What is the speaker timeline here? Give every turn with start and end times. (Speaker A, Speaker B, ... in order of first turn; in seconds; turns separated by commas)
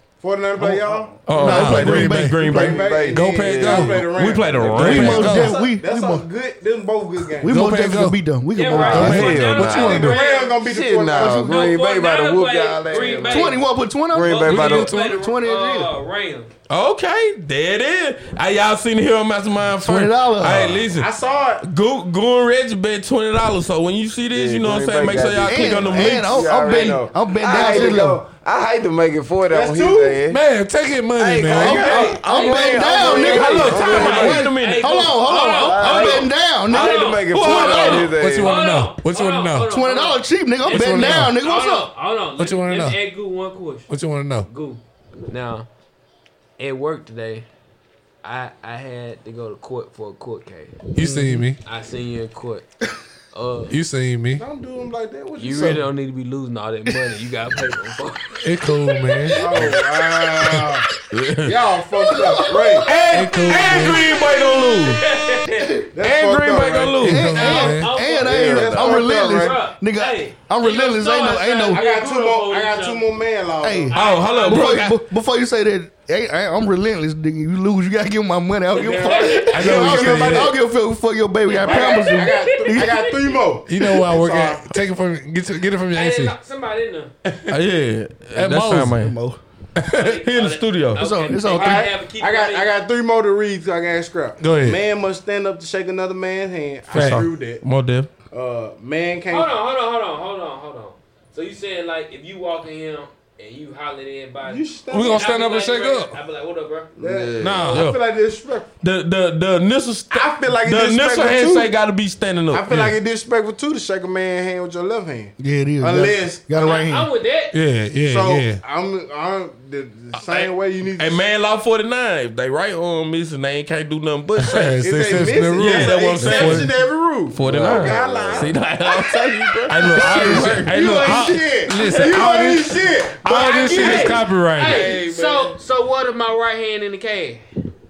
Speaker A: 0.2-1.2, Speaker B: 1.2-3.0, Speaker C: 1.3-2.5, Speaker D: 1.3-2.5, Speaker E: 2.4-4.8, Speaker A: 2.4-7.6, Speaker C: 3.1-4.1, Speaker B: 4.0-5.5, Speaker D: 4.7-6.2, Speaker C: 4.8-5.6, Speaker D: 7.4-9.4, Speaker C: 7.5-8.2, Speaker F: 8.5-10.6, Speaker E: 8.7-14.9, Speaker C: 9.0-10.2, Speaker B: 9.0-9.6, Speaker A: 9.6-11.4, Speaker D: 11.1-11.7, Speaker F: 11.4-13.6, Speaker D: 13.2-15.9, Speaker F: 14.2-16.5, Speaker C: 14.4-15.2, Speaker B: 16.7-26.5, Speaker D: 19.7-20.8, Speaker A: 20.9-21.6, Speaker E: 24.3-30.4, Speaker D: 25.4-28.2, Speaker A: 26.4-26.9, Speaker A: 27.4-28.0, Speaker A: 29.5-30.2, Speaker C: 30.3-31.9, Speaker E: 31.2-34.5, Speaker B: 31.5-32.2, Speaker D: 31.6-37.1, Speaker F: 31.6-43.9, Speaker A: 31.7-32.1, Speaker A: 32.7-34.1, Speaker B: 32.9-35.1, Speaker E: 35.5-38.5, Speaker B: 37.3-38.1, Speaker C: 37.3-39.7, Speaker D: 39.7-41.9, Speaker C: 40.6-41.4, Speaker C: 42.4-43.0, Speaker C: 43.9-44.5, Speaker F: 44.5-45.7, Speaker F: 46.6-47.5, Speaker F: 48.2-50.8, Speaker C: 50.9-51.6, Speaker D: 51.0-51.4, Speaker F: 51.6-52.6, Speaker F: 53.3-53.7, Speaker C: 53.7-54.4, Speaker A: 54.4-55.9, Speaker F: 55.4-59.7, Speaker C: 58.4-59.7, Speaker A: 59.3-60.9, Speaker C: 60.4-60.7, Speaker B: 61.1-61.6, Speaker A: 61.4-63.0, Speaker D: 62.1-62.9, Speaker B: 62.8-65.0, Speaker C: 63.0-64.2, Speaker A: 63.6-64.0, Speaker F: 64.6-65.8, Speaker D: 65.5-65.9, Speaker A: 65.9-67.1, Speaker B: 66.0-67.5, Speaker C: 67.0-67.9, Speaker D: 67.0-71.8, Speaker F: 67.3-73.0, Speaker E: 68.2-69.1, Speaker A: 68.3-69.5, Speaker A: 71.7-74.0, Speaker D: 73.6-83.0, Speaker F: 73.9-74.9, Speaker B: 73.9-75.0, Speaker A: 78.8-80.5, Speaker F: 78.8-79.6, Speaker C: 79.5-80.5, Speaker F: 81.5-83.3, Speaker A: 81.6-84.8, Speaker C: 83.7-86.3, Speaker F: 85.9-87.1, Speaker B: 87.5-89.2, Speaker C: 88.3-89.1, Speaker D: 89.0-89.4, Speaker F: 89.9-92.7, Speaker B: 90.0-91.1, Speaker D: 91.0-91.9, Speaker A: 91.5-97.6, Speaker C: 94.4-94.8, Speaker C: 96.9-97.2, Speaker B: 96.9-98.1, Speaker A: 98.3-99.5, Speaker F: 99.3-106.9, Speaker A: 104.4-105.3, Speaker C: 104.9-106.1, Speaker E: 107.0-107.8, Speaker A: 107.0-108.7, Speaker C: 107.4-107.9, Speaker B: 107.7-108.0, Speaker B: 108.8-113.0, Speaker A: 110.1-111.7, Speaker A: 112.5-116.4, Speaker D: 115.4-117.1, Speaker F: 116.5-117.5, Speaker C: 117.5-118.6, Speaker A: 118.0-121.2, Speaker B: 120.1-124.9, Speaker C: 124.4-126.7, Speaker A: 124.8-128.6, Speaker B: 125.6-126.7, Speaker B: 127.3-132.4, Speaker E: 127.4-128.5, Speaker C: 129.7-134.9, Speaker A: 129.9-134.2, Speaker F: 133.2-137.4, Speaker B: 134.6-135.6